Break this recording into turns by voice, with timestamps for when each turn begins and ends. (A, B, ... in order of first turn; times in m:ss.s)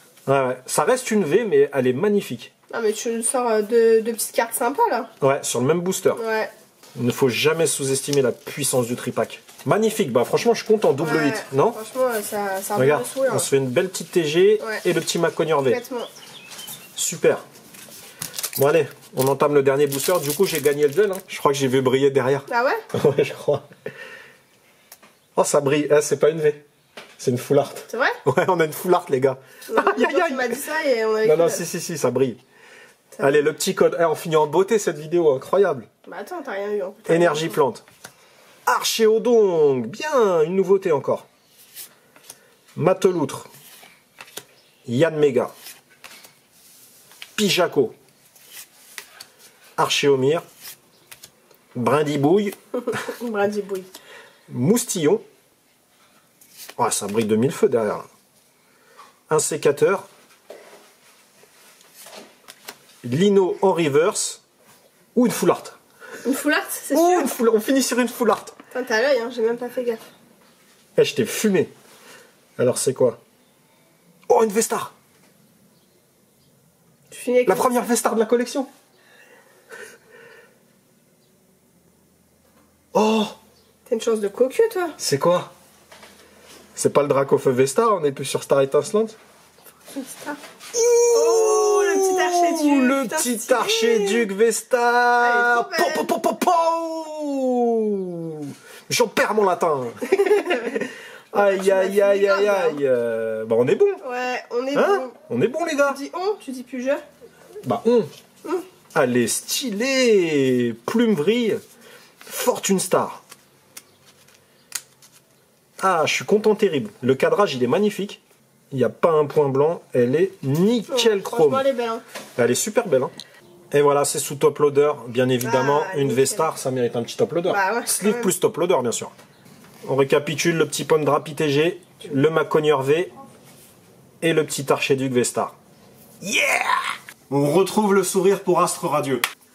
0:00.2-0:02.5 A
0:02.7-0:05.1 B
0:05.2-0:06.2 A
0:06.1-0:06.5 B
0:06.9-0:11.8 A
0:11.0-0:13.5 B
0:12.8-0:15.8 A
0:15.6-0:16.1 B
0:17.0-0:17.4 A
0:18.6-0:23.6 A
0:22.5-0:22.8 B
0:25.4-0:26.6 A
0:27.2-0:30.6 A
0:27.9-0:28.2 B
0:29.7-0:31.6 B
0:31.2-0:32.4 A
0:33.2-0:35.9 A
0:36.0-0:37.6 B
0:37.1-0:37.8 A
0:38.6-0:41.2 A
0:42.8-0:43.5 A
0:44.8-0:45.5 A
0:47.4-0:47.9 A
0:49.8-0:50.4 A
0:51.7-0:52.5 A
0:52.9-0:53.9 B
0:54.5-0:55.2 A
0:56.8-0:58.0 A
0:59.3-1:00.0 A
1:03.0-1:04.4 A
1:05.1-1:05.8 A
1:06.2-1:07.3 B
1:06.9-1:08.5 A
1:08.7-1:10.0 B
1:11.0-1:11.7 A
1:12.6-1:13.2 A
1:14.3-1:14.9 A
1:17.1-1:17.8 B
1:17.5-1:18.7 A
1:22.9-1:23.4 A
1:23.8-1:25.0 B
1:25.0-1:25.5 A
1:26.8-1:29.2 A
1:29.9-1:30.4 B
1:30.7-1:44.0 A
1:31.1-1:34.3 B
1:35.2-1:36.1 B
1:40.1-1:40.8 B
1:41.3-1:42.8 B
1:44.0-1:45.1 B
1:44.7-1:46.0 A
1:45.8-1:47.0 B
1:47.6-1:48.1 A
1:48.9-1:51.6 A
1:52.3-1:53.2 A
1:55.8-1:58.2 A
1:58.7-2:01.6 A
2:00.9-2:02.0 B
2:02.4-2:03.1 A
2:03.7-2:09.1 A
2:05.4-2:06.5 B
2:07.5-2:08.3 B
2:09.8-2:13.1 A
2:14.2-2:15.5 A
2:16.2-2:19.2 A